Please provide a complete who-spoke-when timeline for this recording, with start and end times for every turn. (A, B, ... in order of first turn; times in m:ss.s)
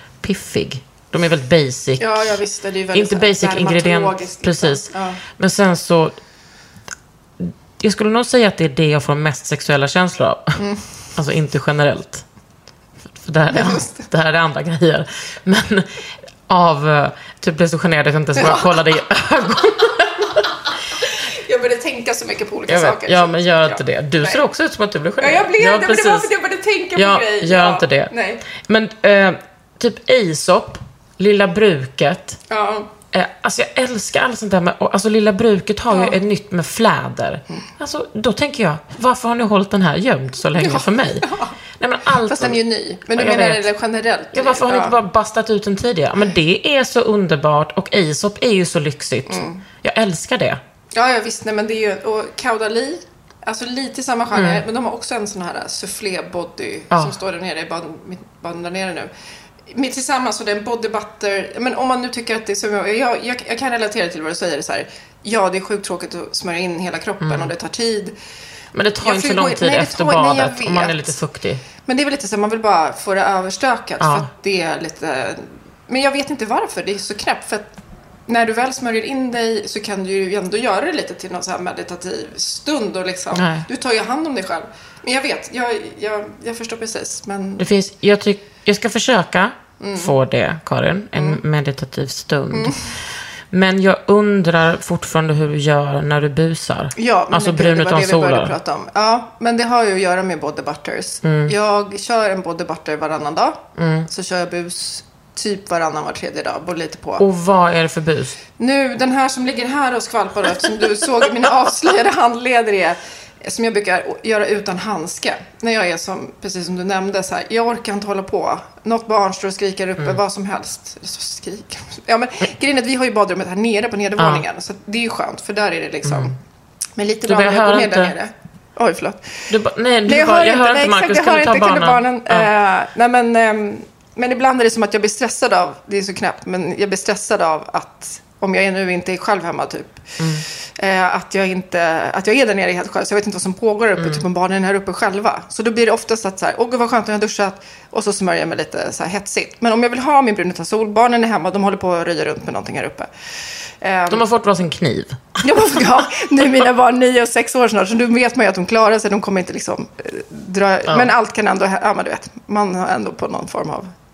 0:00.2-0:02.4 A
0:02.0-0:05.2 B
0:02.9-0:06.1 A
0:07.4-0:10.6 A
0:10.6-0:10.9 B
0:11.1-0:12.2 A
0:13.1-0:15.9 A
0:13.5-0:14.1 B
0:16.5-0:20.4 A
0:18.4-0:18.8 B
0:20.9-0:24.4 B
0:22.7-0:26.3 A
0:25.2-0:28.4 B
0:26.9-0:32.4 A
0:32.5-0:32.9 B
0:33.1-0:43.7 A
0:35.9-0:36.2 B
0:40.6-0:41.5 B
0:42.2-0:45.0 B
0:44.3-0:50.6 A
0:49.3-0:49.6 B
0:50.9-0:59.1 B
0:54.3-0:54.6 A
0:59.7-1:08.2 B
1:07.2-1:07.5 A
1:08.7-1:11.6 A
1:09.0-1:11.2 B
1:11.8-1:27.7 B
1:14.0-1:14.3 A
1:23.3-1:23.7 A
1:27.6-1:32.8 A
1:29.8-1:30.2 B
1:31.1-1:31.4 B
1:32.5-1:32.8 B
1:33.5-1:38.5 A
1:37.0-1:47.2 B
1:41.2-1:41.5 A
1:43.8-1:44.1 A
1:47.2-1:48.4 A
1:48.6-2:06.4 B
2:04.2-2:04.4 A
2:06.0-2:06.3 A
2:07.0-2:09.5 B
2:07.2-2:08.1 A
2:09.5-2:12.5 A
2:10.0-2:20.1 B
2:20.2-2:20.4 A
2:20.6-2:33.1 B
2:24.0-2:24.2 A
2:33.8-2:34.2 B
2:34.1-2:35.7 A
2:35.4-2:43.9 B